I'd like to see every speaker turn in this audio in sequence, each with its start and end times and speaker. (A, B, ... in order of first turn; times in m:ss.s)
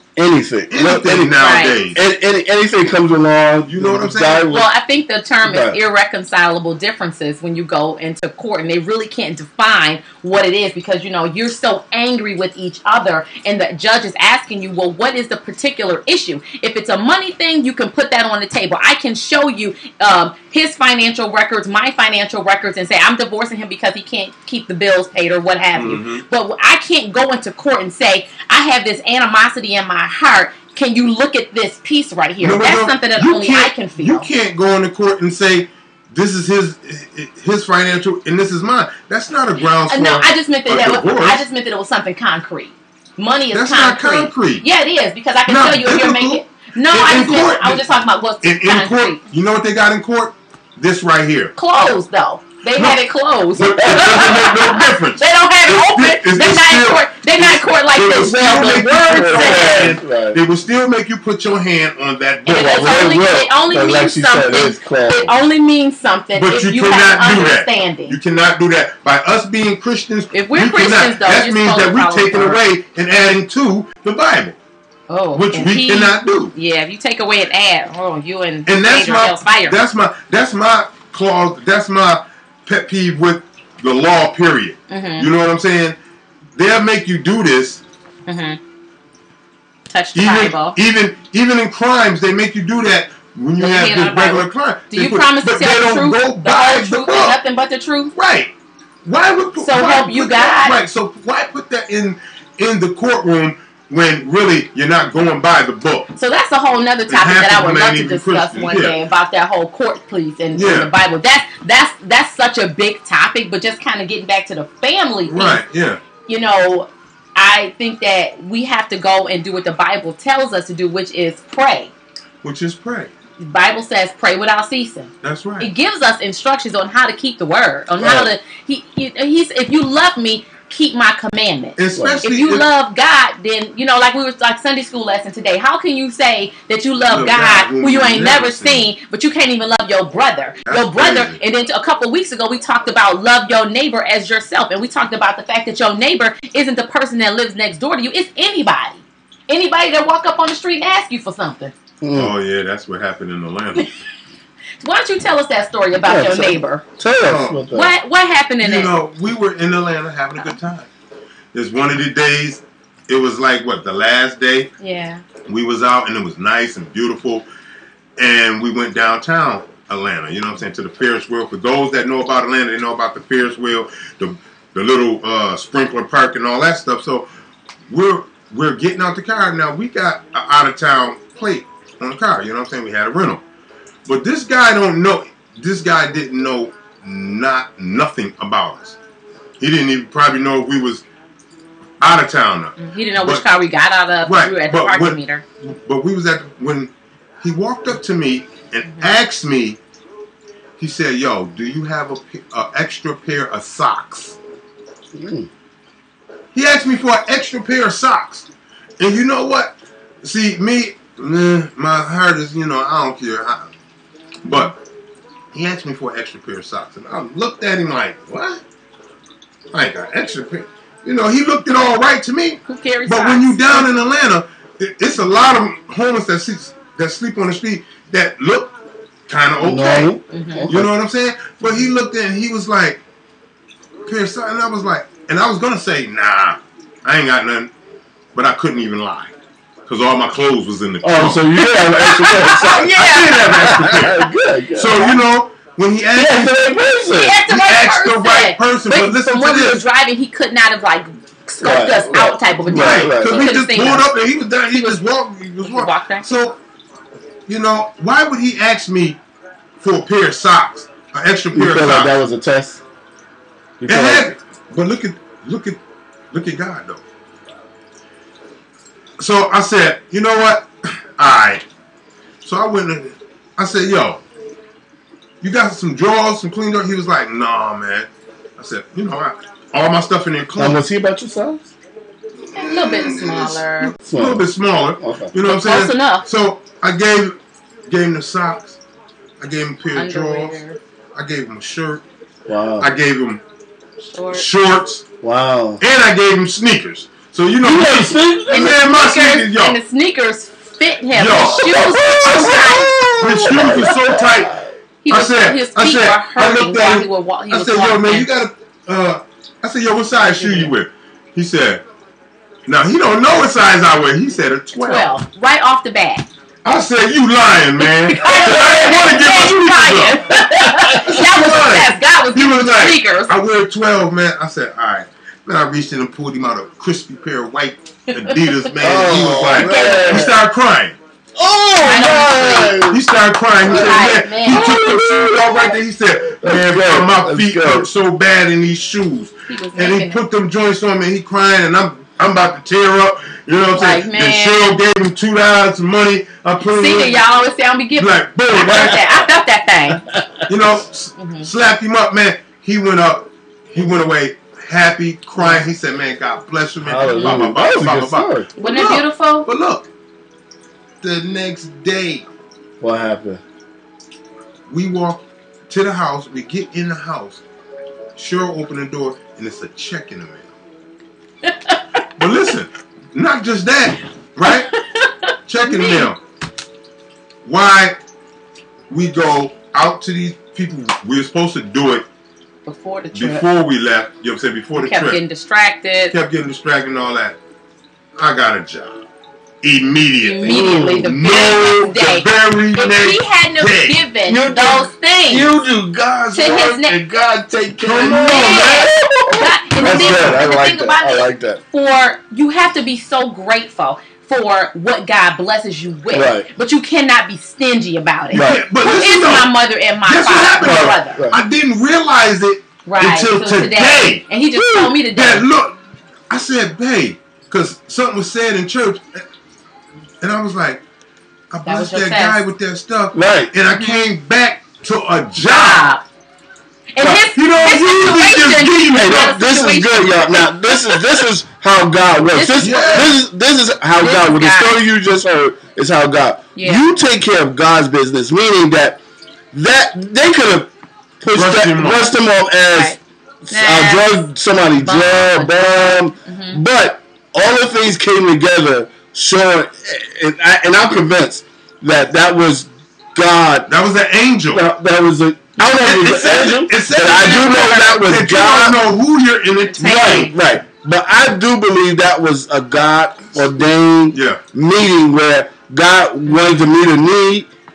0:00.2-0:01.4 A
0:00.7-0:02.0 B
0:01.4-0:01.8 C
0:01.9-0:04.7 A
0:03.6-0:04.5 B
0:04.5-0:34.2 C
0:05.4-0:05.8 A
0:25.8-0:26.2 B
0:32.4-0:41.4 B
0:39.9-0:49.2 C
0:43.5-0:44.6 B
0:45.4-0:47.9 B
0:48.4-0:51.9 B
0:51.6-0:59.9 C
0:52.7-0:53.0 B
0:53.5-1:03.0 B
0:58.1-1:00.4 A
1:02.4-1:08.2 C
1:02.4-1:05.3 A
1:06.3-1:14.6 B
1:10.3-1:12.6 C
1:15.1-1:19.8 C
1:15.3-1:16.5 B
1:18.7-1:26.0 B
1:24.9-1:25.3 C
1:26.6-1:27.8 B
1:28.3-1:28.6 C
1:29.9-1:30.8 C
1:30.1-1:37.4 B
1:33.6-1:38.1 C
1:38.2-1:38.5 B
1:39.0-1:46.1 B
1:39.6-1:40.8 C
1:46.2-1:55.6 C
1:47.1-1:49.0 B
1:50.5-1:50.9 B
1:55.3-1:56.0 B
1:56.3-2:01.9 C
2:02.4-2:03.1 B
2:03.4-2:31.7 C
2:05.2-2:05.7 B
2:08.0-2:08.3 A
2:11.8-2:12.7 B
2:17.1-2:18.9 B
2:20.7-2:21.4 B
2:32.0-2:32.3 A
2:32.1-2:33.9 B
2:34.8-2:36.8 C
2:36.0-2:37.9 A
2:37.2-2:37.6 B
2:37.7-2:38.9 C
2:38.6-2:40.9 B
2:41.5-2:44.7 B
2:44.8-2:45.2 C
2:45.5-2:47.4 B
2:48.2-2:57.3 B
2:57.9-3:03.4 B
3:04.0-3:09.0 B
3:09.6-3:11.0 B
3:12.0-3:13.4 B
3:12.8-3:15.4 C
3:14.2-3:19.8 B
3:20.8-3:24.4 B
3:25.1-3:25.5 A
3:26.5-3:28.5 B
3:29.0-3:33.7 B
3:34.4-3:34.8 B
3:35.5-3:38.6 B
3:39.7-3:48.7 B
3:42.6-3:43.9 C
3:49.3-3:50.1 B
3:49.6-3:50.9 A
3:50.3-3:50.7 C
3:50.7-3:53.0 B
3:54.0-3:57.7 B
3:58.3-3:59.3 B
3:59.9-4:01.4 B
4:01.0-4:02.9 A
4:01.9-4:03.9 C
4:02.4-4:06.6 B
4:03.5-4:05.2 A
4:06.1-4:07.4 A
4:07.1-4:14.1 C
4:07.5-4:09.8 B
4:11.6-4:13.5 A
4:12.7-4:16.6 B
4:14.7-4:15.0 C
4:15.6-4:16.2 C
4:17.5-4:19.2 B
4:19.8-4:22.2 B
4:21.5-4:22.8 A
4:23.8-4:24.3 A
4:23.8-4:25.8 B
4:26.3-4:27.0 B
4:29.2-4:31.6 B
4:32.4-4:34.2 B
4:35.4-4:40.8 B
4:40.6-4:41.7 A
4:42.5-4:47.4 B
4:42.5-4:43.9 C
4:44.1-4:44.5 A
4:45.0-4:45.3 A
4:45.4-4:46.2 C
4:47.9-4:48.8 B
4:49.4-4:50.6 B
4:49.9-4:50.8 C
4:51.1-4:52.0 B
4:52.5-4:52.9 A
4:52.8-4:53.4 B
4:54.1-4:54.4 C
4:54.3-4:55.0 B
4:55.2-4:55.8 A
4:55.8-4:59.8 B
4:57.6-4:58.8 A
4:58.5-5:03.0 C
5:01.1-5:04.6 B
5:01.3-5:04.6 A
5:05.0-5:08.3 C
5:05.1-5:11.8 B
5:10.3-5:10.7 C
5:12.7-5:15.1 B
5:14.8-5:16.3 C
5:16.6-5:20.3 B
5:18.1-5:23.3 C
5:20.5-5:21.2 A
5:21.1-5:31.0 B
5:28.2-5:30.3 C
5:28.8-5:30.4 A
5:31.4-5:33.0 A
5:31.8-5:32.8 C
5:32.0-5:47.2 B
5:33.6-5:35.0 C
5:33.6-5:35.8 A
5:36.4-5:37.9 A
5:39.5-5:40.2 C
5:43.7-5:44.7 C
5:46.6-5:50.0 C
5:48.0-5:49.2 B
5:50.5-5:59.9 B
5:51.2-5:51.5 C
5:56.8-5:58.5 A
5:57.1-5:57.4 C
5:58.6-5:59.5 C
6:01.0-6:02.3 B
6:02.8-6:03.4 A
6:04.7-6:07.4 B
6:08.2-6:10.5 B
6:11.4-6:11.8 C
6:12.2-6:14.7 B
6:14.4-6:16.1 C
6:15.5-6:16.2 B
6:17.4-6:18.0 B
6:18.9-6:22.0 B
6:22.6-6:23.4 C
6:23.1-6:25.2 B
6:24.8-6:26.1 C
6:26.1-6:27.4 B
6:28.2-6:29.0 B
6:29.6-6:34.0 B
6:30.2-6:35.5 C
6:30.4-6:31.5 A
6:34.3-6:41.6 A
6:36.3-6:37.0 C
6:37.8-6:38.9 B
6:38.2-6:51.2 C
6:39.8-6:40.4 B
6:46.1-6:46.5 A
6:48.3-6:54.2 B
6:48.3-6:48.6 A
6:50.6-6:51.4 A
6:52.8-6:55.4 C
6:54.6-6:54.9 A
6:55.1-6:55.8 B
6:56.3-6:59.2 B
7:00.2-7:00.8 B
7:01.5-7:05.9 B
7:01.6-7:02.4 C
7:03.1-7:03.5 A
7:05.4-7:06.0 C
7:06.9-7:11.1 C
7:07.1-7:09.4 B
7:08.9-7:19.0 A
7:12.3-7:13.1 C
7:12.6-7:13.1 B
7:14.0-7:14.8 C
7:16.5-7:16.8 C
7:19.5-7:33.7 A
7:21.3-7:22.1 B
7:22.7-7:23.0 C
7:23.5-7:24.1 C
7:24.8-7:26.6 C
7:33.7-7:34.6 B
7:34.5-7:38.8 A
7:35.6-7:40.3 B
7:37.1-7:37.8 C
7:39.7-7:40.4 C
7:39.8-7:47.5 A
7:44.1-7:44.4 B
7:46.2-7:46.6 C